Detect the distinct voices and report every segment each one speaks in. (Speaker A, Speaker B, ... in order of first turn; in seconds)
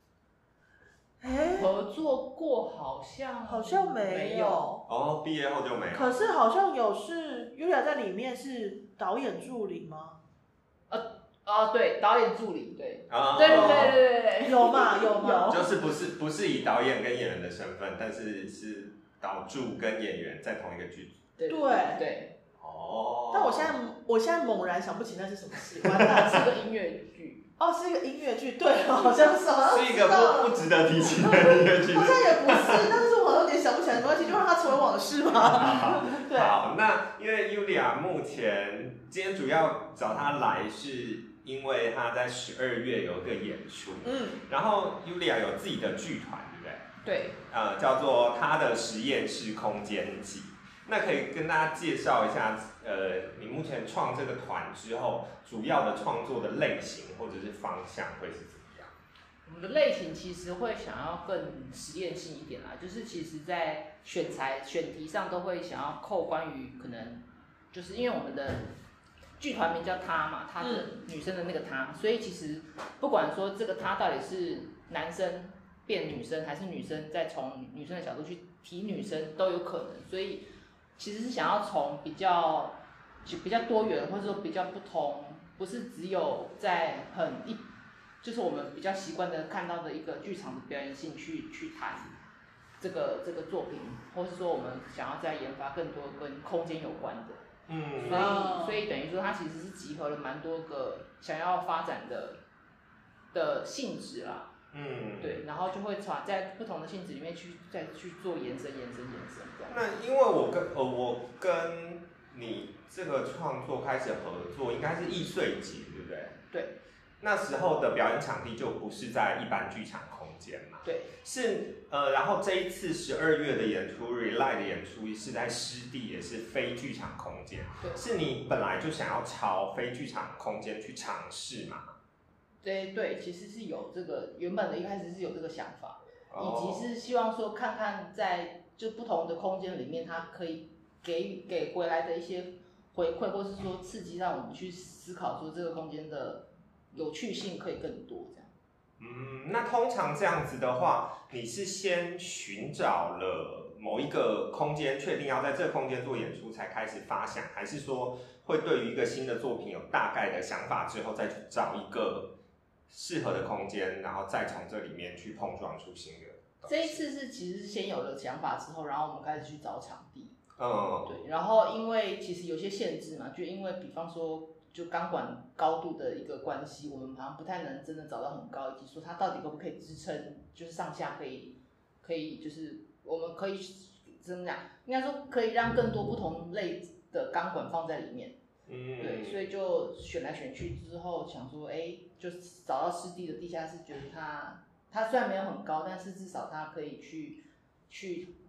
Speaker A: 1.2-1.7, 3.5-4.8, 5.9-10.2, 13.4-15.7, 21.5-22.0, 23.3-26.5, 27.6-36.6, 44.0-44.4, 70.6-70.9, 98.1-98.8
Speaker B: 1.6-4.6, 10.9-15.4, 21.4-22.3, 26.3-27.5, 47.0-47.4, 59.5-68.7, 69.4-80.4, 81.0-87.6, 88.2-92.1, 92.8-97.4, 98.0-102.4, 103.3-104.5, 105.2-109.8, 120.8-121.1, 132.6-148.5, 166.7-170.4, 171.1-188.4, 189.0-198.3
Speaker C: 4.9-6.2, 13.1-14.0, 15.5-21.2, 22.6-23.7, 25.8-26.3, 29.6-33.0, 35.3-46.9, 47.5-58.9, 97.7-98.4, 104.7-105.4, 109.7-116.4, 117.2-131.9, 136.3-136.9, 149.0-162.3, 162.9-167.0, 170.6-171.2, 188.7-189.4